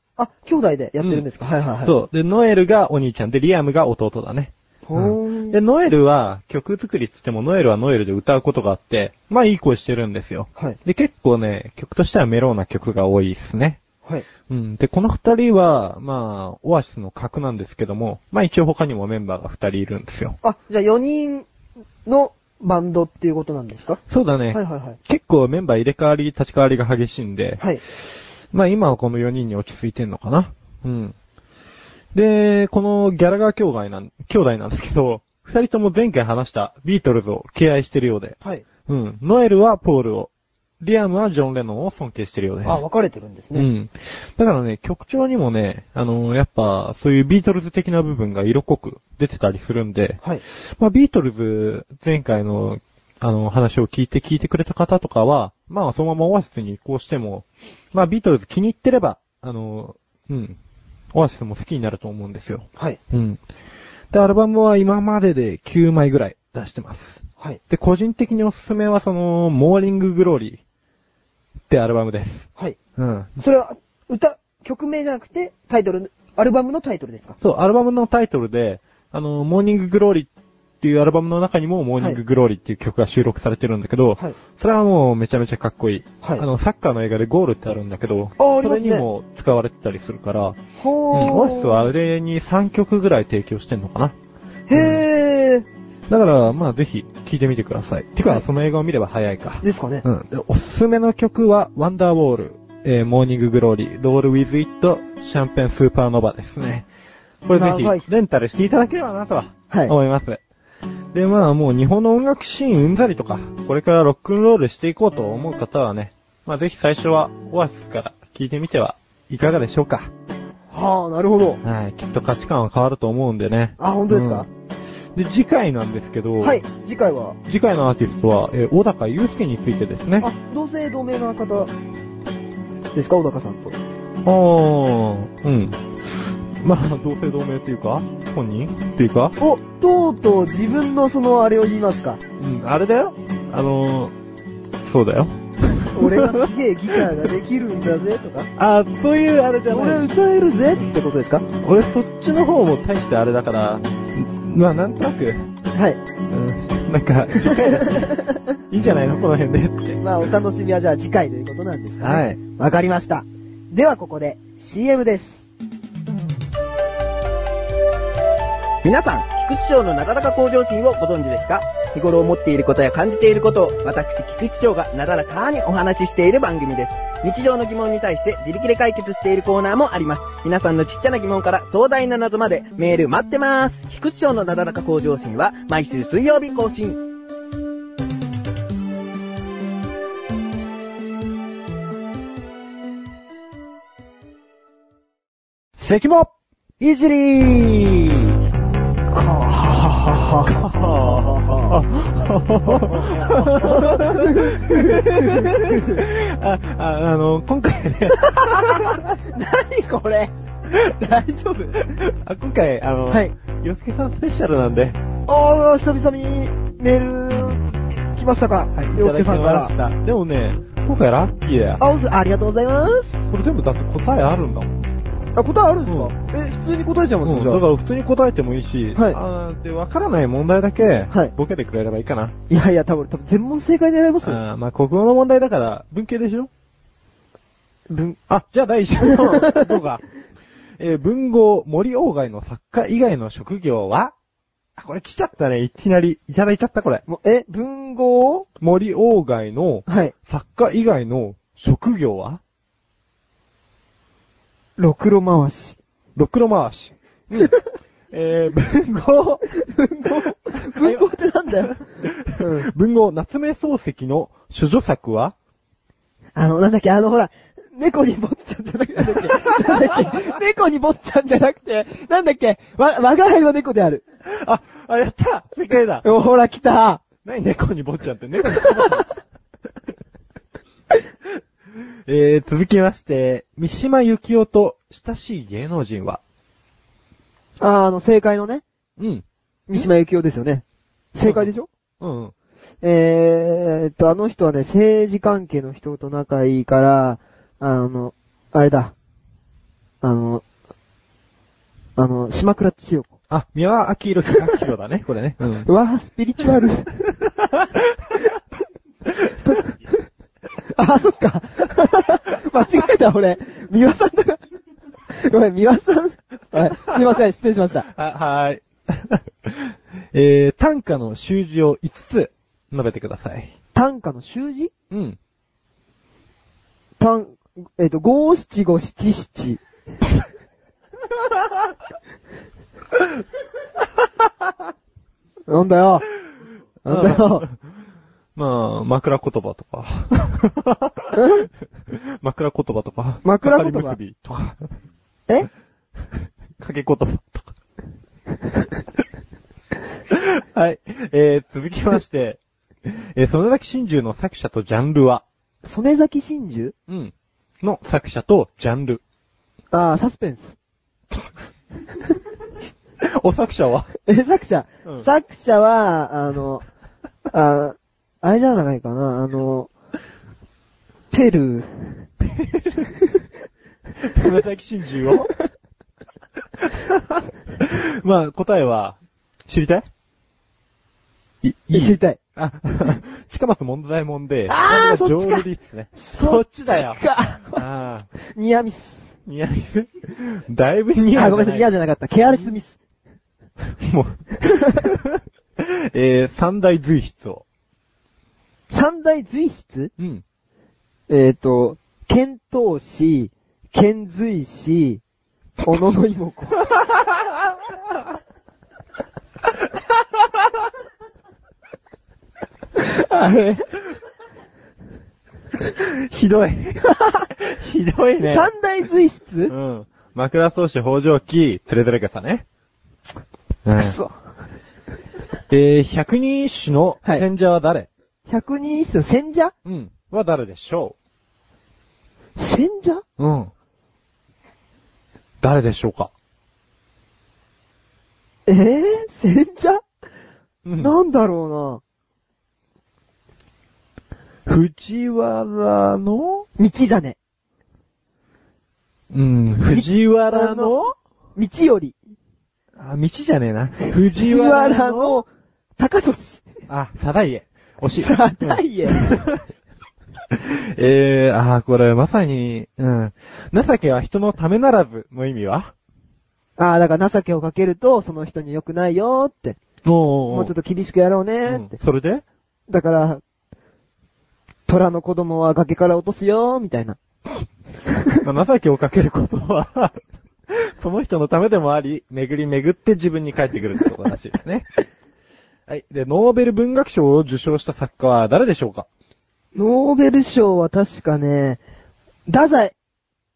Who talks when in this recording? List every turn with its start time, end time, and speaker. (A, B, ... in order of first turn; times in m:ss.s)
0:00.2-0:02.0 A
0:01.0-0:01.2 B
0:01.8-0:13.8 B
0:04.9-0:05.6 A
0:14.5-0:20.4 B
0:20.4-0:21.5 A
0:22.0-0:24.0 A
0:24.1-0:31.2 B
0:24.5-0:25.0 A
0:32.1-0:38.4 B
0:38.9-0:42.8 B
0:42.6-0:43.7 A
0:43.6-1:00.6 B
1:01.1-1:03.4 B
1:04.1-1:10.6 B
1:11.7-1:13.4 B
1:13.4-1:17.4 A
1:17.4-1:20.3 B
1:20.8-1:30.6 B
1:28.4-1:29.1 A
1:30.8-1:31.9 A
1:31.1-1:34.2 B
1:34.7-1:35.7 A
1:34.7-1:35.0 B
1:36.1-1:46.9 B
1:39.6-1:40.1 A
1:47.5-1:50.4 B
1:47.5-1:48.1 A
1:51.1-2:00.1 B
2:00.7-2:01.6 A
2:01.6-2:04.5 B
2:03.8-2:04.5 A
2:05.2-2:06.6 B
2:06.4-2:07.4 A
2:07.5-2:10.3 B
2:10.2-2:11.7 A
2:12.9-2:13.8 A
2:14.2-2:19.4 B
2:19.4-2:22.2 A
2:22.4-2:24.1 B
2:24.8-2:26.4 B
2:25.9-2:28.5 A
2:28.6-2:30.1 B
2:29.7-2:31.4 A
2:31.6-2:35.5 B
2:35.7-2:36.0 A
2:36.3-2:40.0 B
2:37.4-2:38.4 A
2:40.0-2:45.4 A
2:42.0-2:42.4 B
2:48.8-3:07.0 C
3:15.8-3:18.4 B
3:19.1-3:21.8 A
3:20.5-3:29.0 B
3:22.6-3:26.0 A
3:28.3-3:31.9 A
3:31.8-3:35.0 B
3:35.3-3:39.7 A
3:38.8-3:41.8 B
3:41.8-3:43.3 A
3:43.3-3:44.8 B
3:45.4-3:47.6 A
3:45.9-3:46.1 B
3:47.2-3:52.4 B
3:52.5-3:54.4 A
3:54.2-3:56.5 B
3:57.9-3:58.2 A
3:58.3-4:00.0 B
3:59.0-3:59.6 A
4:00.8-4:04.1 B
4:04.8-4:07.0 B
4:07.1-4:08.5 A
4:08.6-4:12.4 B
4:09.9-4:10.1 A
4:14.8-4:15.8 A
4:16.2-4:17.6 B
4:18.1-4:19.4 B
4:19.6-4:21.8 A
4:20.2-4:25.3 B
4:22.3-4:22.7 A
4:26.4-4:34.0 A
4:34.3-4:36.1 B
4:36.0-4:37.0 A
4:37.2-4:39.2 B
4:42.1-4:46.2 B
4:47.6-4:48.6 A
4:49.0-4:49.9 B
4:49.7-4:51.7 A
4:51.2-4:52.3 B
4:52.8-4:58.9 A
5:00.0-5:00.4 A
5:02.0-5:03.1 A
5:03.3-5:05.7 B
5:05.7-5:06.9 A
5:07.3-5:08.2 B
5:09.2-5:09.9 A
5:10.8-5:14.4 A
5:15.1-5:17.9 A
5:16.9-5:17.2 B
5:17.9-5:23.5 B
5:23.7-5:24.7 A
5:24.9-5:25.2 B
5:27.0-5:29.6 A
5:35.5-5:36.1 A
5:36.8-5:37.5 A
5:36.9-5:37.5 B
5:38.4-5:44.7 B
5:41.2-5:41.5 A
5:43.2-5:44.0 A
5:46.6-5:47.5 B
5:50.1-5:55.2 B
5:55.6-5:56.8 A
5:56.9-5:59.0 B
5:59.7-6:00.6 A
6:03.0-6:03.9 B
6:04.1-6:06.7 A
6:07.3-6:09.7 A
6:11.1-6:12.1 A
6:12.2-6:12.9 B
6:14.0-6:15.3 B
6:16.6-6:19.9 B
6:21.4-6:28.1 B
6:21.7-6:22.2 A
6:24.5-6:27.6 A
6:28.3-6:29.1 A
6:29.3-6:31.7 B
6:31.1-6:32.8 A
6:33.8-6:37.4 B
6:38.7-6:39.9 A
6:40.0-6:40.2 B
6:41.1-6:45.0 A
6:45.6-6:46.7 A
6:52.8-6:53.8 A
6:55.7-6:58.5 B
6:57.0-6:57.3 A
6:58.2-6:59.5 A
6:59.5-7:02.4 B
7:03.6-7:04.0 B
7:03.8-7:04.1 A
7:05.5-7:07.9 B
7:08.3-7:09.5 A
7:09.6-7:11.0 B
7:12.4-7:13.0 A
7:13.2-7:13.5 B
7:15.4-7:16.1 B
7:18.5-7:19.8 A
7:20.6-7:21.0 B
7:20.8-7:21.8 A
7:24.5-7:26.5 B
7:26.6-7:27.2 A
7:29.1-7:30.9 B
7:29.7-7:30.8 A
7:31.4-7:32.0 A
7:32.8-7:35.2 B
7:34.1-7:36.5 A
7:36.7-7:39.4 B
7:38.0-7:39.0 A
7:40.3-7:45.7 B
7:46.6-7:49.6 A
7:49.8-7:50.5 B
7:50.3-7:51.8 A
7:51.5-7:52.2 B
7:52.7-7:53.2 A
7:54.7-7:57.0 A
7:58.2-8:04.7 B
8:05.7-8:08.9 B
8:09.6-8:11.6 A
8:12.3-8:12.8 A